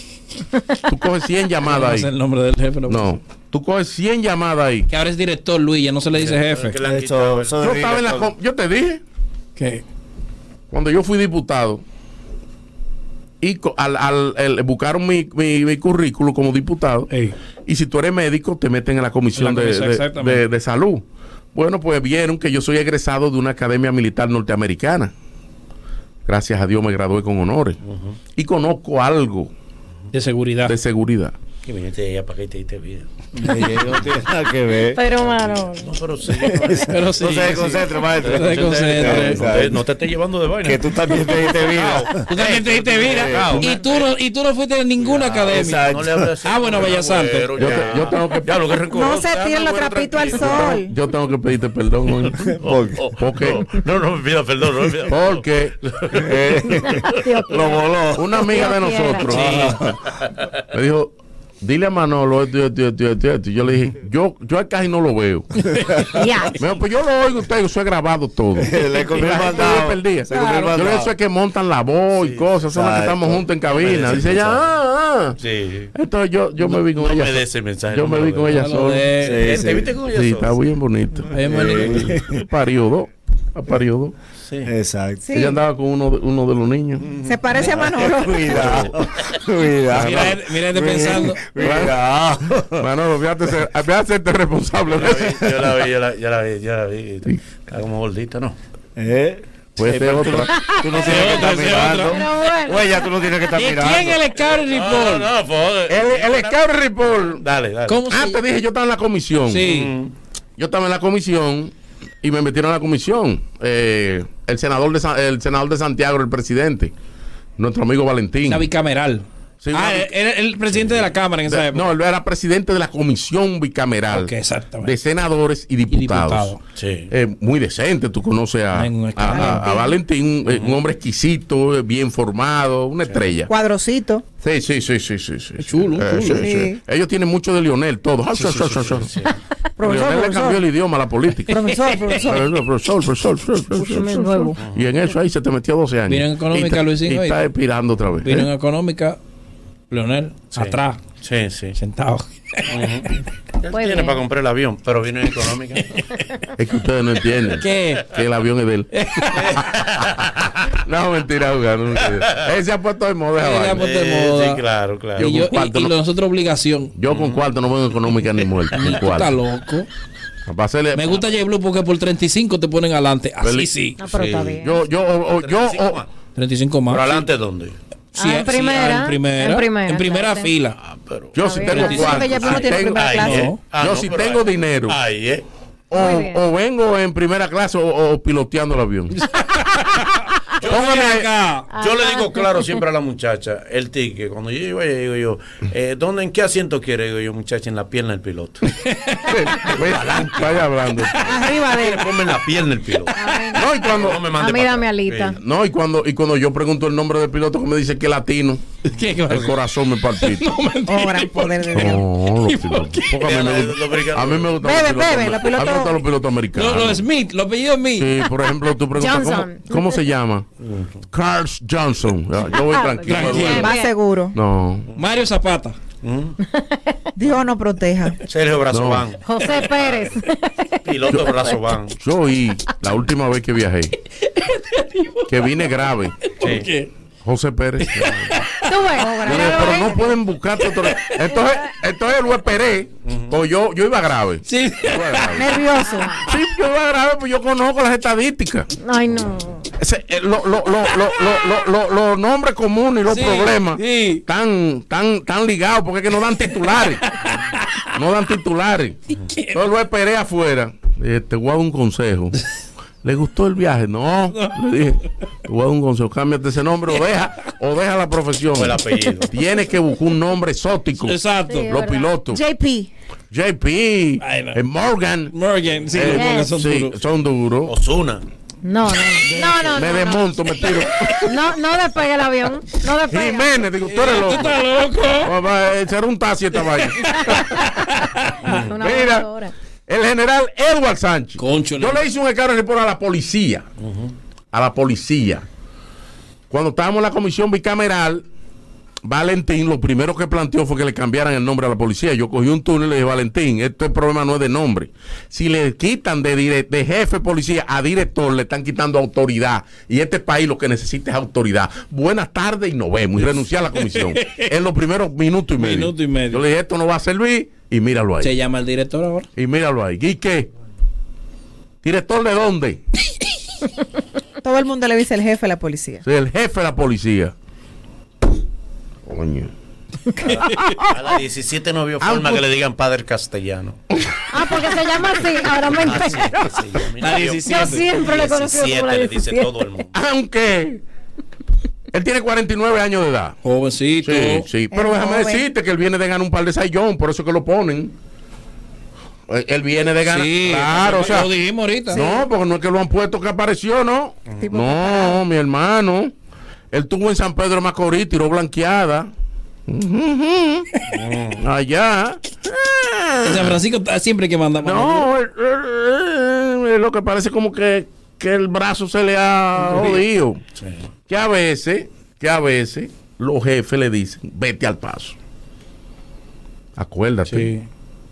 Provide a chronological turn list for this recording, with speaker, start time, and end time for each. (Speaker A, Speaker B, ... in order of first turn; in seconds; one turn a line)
Speaker A: 0.9-2.1
Speaker B: 1.6-3.0
Speaker A: 2.9-4.9
Speaker B: 4.9-6.8
Speaker C: 6.1-7.9
Speaker D: 6.8-8.3
Speaker A: 7.6-9.0
Speaker B: 9.6-9.8
Speaker A: 10.7-11.8
Speaker A: 13.4-17.1
Speaker B: 17.1-17.3
Speaker A: 17.6-25.1
Speaker B: 19.3-20.4
Speaker A: 26.2-27.8
Speaker C: 27.9-28.2
Speaker A: 28.4-29.5
Speaker B: 30.1-30.8
Speaker A: 30.6-31.3
Speaker C: 31.6-33.1
Speaker D: 33.4-35.0
Speaker E: 34.9-35.9
Speaker C: 35.2-44.1
Speaker D: 36.5-39.8
Speaker B: 36.9-39.4
Speaker D: 40.6-42.3
Speaker B: 42.3-45.9
Speaker D: 42.9-43.7
Speaker C: 45.0-50.8
Speaker D: 45.5-46.3
Speaker B: 46.4-47.6
Speaker A: 47.6-48.5
Speaker F: 48.9-50.9
Speaker A: 50.4-52.4
Speaker C: 52.2-57.1
Speaker D: 52.5-53.1
Speaker A: 53.2-53.6
Speaker A: 55.1-55.7
Speaker D: 56.1-58.3
Speaker E: 56.8-57.8
Speaker A: 58.1-59.7
Speaker E: 58.3-59.3
Speaker D: 59.4-59.9
Speaker B: 59.4-59.7
Speaker A: 60.7-65.6
Speaker E: 66.1-66.5
Speaker A: 66.6-75.4
Speaker D: 68.5-71.1
Speaker C: 72.2-72.5
Speaker D: 72.7-73.4
Speaker C: 73.7-74.6
Speaker C: 75.4-75.9
Speaker A: 75.9-79.2
Speaker C: 76.6-80.6
Speaker B: 78.5-79.4
Speaker D: 79.2-80.0
Speaker A: 80.1-84.1
Speaker B: 81.3-82.1
Speaker D: 81.4-82.4
Speaker D: 84.6-85.2
Speaker F: 85.2-85.6
Speaker A: 85.3-87.1
Speaker F: 87.2-88.5
Speaker D: 87.6-92.8
Speaker C: 88.5-88.9
Speaker A: 88.6-88.9
Speaker B: 89.9-91.5
Speaker A: 89.9-90.4
Speaker A: 91.5-92.0
Speaker A: 92.8-95.3
Speaker C: 95.0-98.5
Speaker D: 95.2-95.6
Speaker D: 99.0-104.2
Speaker A: 99.8-101.7
Speaker B: 100.6-102.2
Speaker E: 102.1-102.9
Speaker B: 103.5-105.3
Speaker C: 104.4-106.6
Speaker A: 105.9-107.4
Speaker C: 107.2-108.0
Speaker B: 107.9-108.4
Speaker A: 108.1-109.7
Speaker B: 109.5-109.9
Speaker C: 109.6-110.1
Speaker A: 110.6-116.9
Speaker A: 117.6-118.7
Speaker B: 118.5-121.9
Speaker A: 119.6-120.1
Speaker A: 121.5-126.5
Speaker B: 124.1-124.9
Speaker B: 125.9-126.6
Speaker C: 126.8-127.1
Speaker A: 127.1-133.5
Speaker B: 128.7-129.7
Speaker F: 129.3-130.0
Speaker C: 130.4-130.8
Speaker F: 133.5-134.2
Speaker A: 134.4-139.1
Speaker B: 135.6-136.5
Speaker F: 136.4-136.8
Speaker C: 138.4-139.4
Speaker F: 139.8-140.6
Speaker A: 139.8-141.5
Speaker F: 141.5-142.5
Speaker B: 141.7-142.2
Speaker A: 142.2-148.5
Speaker E: 143.8-144.6
Speaker F: 144.0-144.5
Speaker C: 144.6-144.9
Speaker B: 146.1-147.4
Speaker B: 148.2-149.2
Speaker B: 149.9-151.0
Speaker C: 150.5-151.8
Speaker B: 151.7-152.8
Speaker C: 152.7-156.0
Speaker E: 153.7-154.2
Speaker A: 156.6-158.9
Speaker B: 157.5-158.1
Speaker B: 158.9-159.6
Speaker C: 159.3-160.7
Speaker A: 160.8-163.8
Speaker C: 162.1-162.4
Speaker B: 163.4-164.6
Speaker C: 163.8-165.4
Speaker B: 165.2-166.9
Speaker A: 165.2-165.9
Speaker A: 167.0-169.4
Speaker C: 167.1-167.5
Speaker B: 168.9-169.9
Speaker A: 170.5-171.2
Speaker B: 170.9-174.0
Speaker A: 173.4-173.7
Speaker E: 174.0-174.8
Speaker C: 174.0-174.6
Speaker A: 174.6-176.0
Speaker C: 175.4-176.1
Speaker B: 176.4-177.2
Speaker C: 176.9-177.8
Speaker E: 178.1-180.5
Speaker B: 178.2-180.8
Speaker C: 181.1-181.3
Speaker A: 181.3-185.0
Speaker E: 181.4-182.0
Speaker F: 181.7-183.5
Speaker B: 181.7-182.6
Speaker C: 182.4-185.4
Speaker B: 183.2-183.6
Speaker A: 185.9-189.2
Speaker E: 185.9-186.4
Speaker B: 189.4-189.8
Speaker C: 190.6-191.1
Speaker B: 190.7-191.7
Speaker A: 190.7-191.3
Speaker E: 191.7-192.7
Speaker C: 191.7-198.7
Speaker B: 198.8-199.3
Speaker A: 199.2-201.3
Speaker C: 199.6-203.2
Speaker F: 201.2-202.2
Speaker F: 203.1-203.6
Speaker E: 203.2-203.5
Speaker A: 203.5-204.3
Speaker C: 203.8-205.4
Speaker E: 204.3-205.4
Speaker A: 205.4-208.7
Speaker B: 208.9-209.6
Speaker A: 209.3-210.5
Speaker B: 210.1-211.7
Speaker F: 210.9-212.0
Speaker A: 211.7-217.0
Speaker B: 212.3-213.2
Speaker C: 213.2-214.6
Speaker F: 214.6-216.0
Speaker B: 216.5-218.2
Speaker A: 217.9-220.5
Speaker E: 218.9-220.0
Speaker C: 220.6-220.9
Speaker A: 221.1-223.7
Speaker E: 222.5-223.9
Speaker B: 223.1-223.7
Speaker F: 223.6-224.4
Speaker A: 224.3-224.9
Speaker B: 224.9-225.7
Speaker C: 226.0-226.4
Speaker E: 226.5-226.9
Speaker F: 227.2-228.2
Speaker C: 228.3-230.1
Speaker A: 228.7-229.1
Speaker E: 229.2-231.6
Speaker C: 230.8-231.9
Speaker A: 231.9-233.9
Speaker B: 234.4-235.6
Speaker A: 235.3-236.1
Speaker B: 236.2-236.9
Speaker C: 236.4-236.7
Speaker A: 237.2-238.1
Speaker B: 237.8-238.9
Speaker C: 238.0-238.4
Speaker E: 238.7-240.0
Speaker F: 238.9-240.1
Speaker A: 239.2-245.5
Speaker B: 240.8-241.2
Speaker C: 243.0-243.4
Speaker B: 244.5-245.5
Speaker F: 245.4-246.2
Speaker E: 245.8-246.2
Speaker A: 246.2-248.7
Speaker E: 248.8-249.7
Speaker A: 249.8-257.0
Speaker B: 253.1-254.2
Speaker B: 257.0-257.9
Speaker A: 257.9-259.0
Speaker B: 259.3-259.6
Speaker A: 259.5-262.4
Speaker A: 263.0-272.4
Speaker B: 264.3-264.6
Speaker C: 268.5-269.3
Speaker B: 271.0-271.7
Speaker E: 271.4-272.1
Speaker F: 272.3-272.9
Speaker A: 273.3-275.3
Speaker B: 274.2-274.6
Speaker B: 275.3-277.0
Speaker A: 275.9-277.7
Speaker E: 276.1-276.5
Speaker C: 277.7-278.2
Speaker E: 278.6-280.2
Speaker B: 279.2-279.8
Speaker A: 279.7-281.3
Speaker E: 281.2-283.6
Speaker A: 283.1-284.6
Speaker B: 283.8-285.3
Speaker A: 285.2-287.5
Speaker B: 287.2-288.6
Speaker E: 287.3-287.6
Speaker C: 288.4-288.7
Speaker E: 288.5-289.5
Speaker A: 288.8-289.2
Speaker A: 289.9-293.6
Speaker B: 291.4-292.0
Speaker C: 293.8-294.1
Speaker A: 294.5-295.4
Speaker A: 296.5-298.2
Speaker A: 299.1-318.3
Speaker B: 313.8-314.5
Speaker B: 315.6-316.4
Speaker B: 318.2-319.3
Speaker A: 319.4-320.5
Speaker A: 321.8-322.8
Speaker F: 324.4-326.0
Speaker A: 326.1-327.3
Speaker A: 329.1-329.5
Speaker C: 330.2-333.8
Speaker A: 332.0-332.4
Speaker E: 334.3-336.5
Speaker C: 335.6-339.9
Speaker B: 337.0-337.9
Speaker E: 337.4-339.5
Speaker A: 339.9-340.8
Speaker A: 341.9-343.4
Speaker B: 343.4-344.5
Speaker A: 344.0-347.9
Speaker F: 344.7-345.4
Speaker A: 349.3-351.3
Speaker B: 350.0-352.0
Speaker F: 351.9-352.2
Speaker A: 351.9-356.1
Speaker F: 354.4-355.2
Speaker A: 356.7-359.1
Speaker A: 359.7-360.7
Speaker C: 360.9-361.4
Speaker A: 361.4-363.6
Speaker B: 363.2-365.1
Speaker A: 364.6-370.4
Speaker B: 369.7-370.0
Speaker A: 371.1-375.1
Speaker A: 376.8-377.5